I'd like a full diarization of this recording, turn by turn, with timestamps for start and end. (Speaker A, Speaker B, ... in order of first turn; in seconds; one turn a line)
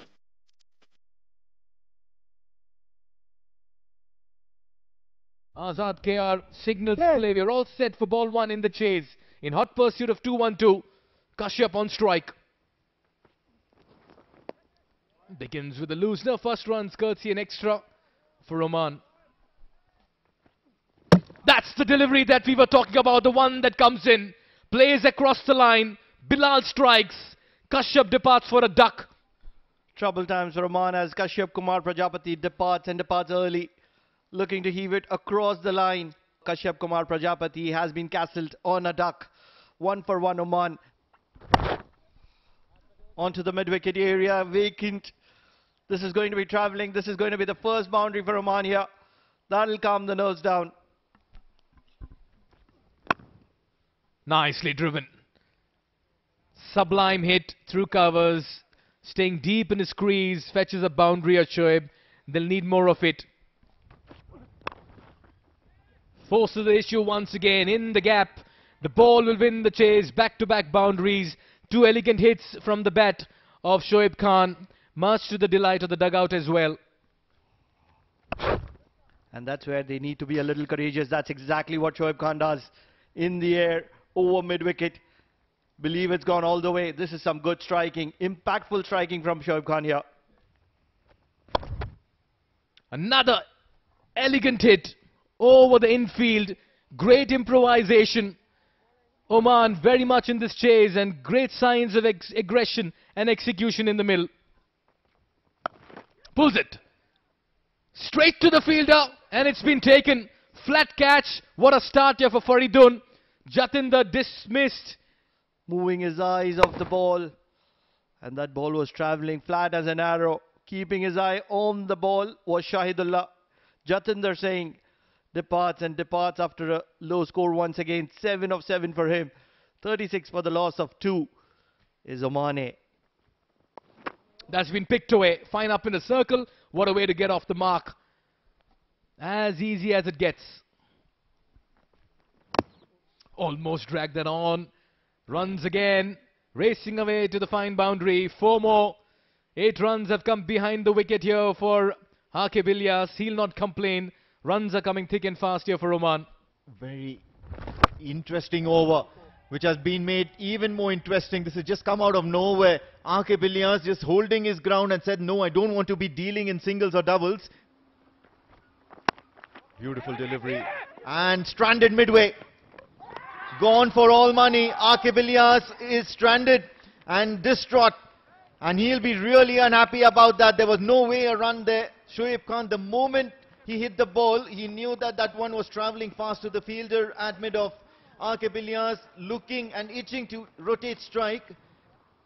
Speaker A: 5.5-10.8
Speaker A: 11.3-12.3
Speaker A: 15.3-17.8
Speaker A: 18.4-19.0
Speaker A: 21.4-29.1
Speaker B: 29.9-33.7
Speaker B: 34.3-40.8
Speaker B: 43.2-45.1
Speaker B: 45.9-48.9
Speaker B: 49.5-50.7
Speaker A: 54.2-55.1
Speaker A: 56.5-63.3
Speaker A: 66.2-76.8
Speaker B: 79.3-85.0
Speaker B: 85.8-90.0
Speaker A: 92.9-93.4
Speaker A: 94.2-98.3
Speaker A: 99.3-104.3
Speaker A: 106.3-106.8
Speaker A: 107.9-115.0
Speaker B: 115.7-117.3
Speaker B: 118.2-123.3
Speaker B: 123.8-124.8
Speaker B: 125.3-131.3
Speaker B: 132.0-132.8
Speaker A: 134.5-137.9
Speaker A: 139.2-140.6
Speaker A: 143.3-144.7
Speaker A: 145.3-149.0
Speaker A: 149.6-156.2
Speaker C: 156.7-157.2
Speaker C: 158.0-167.5
Speaker C: 169.8-172.3
Speaker C: 173.6-177.9
Speaker C: 178.6-191.5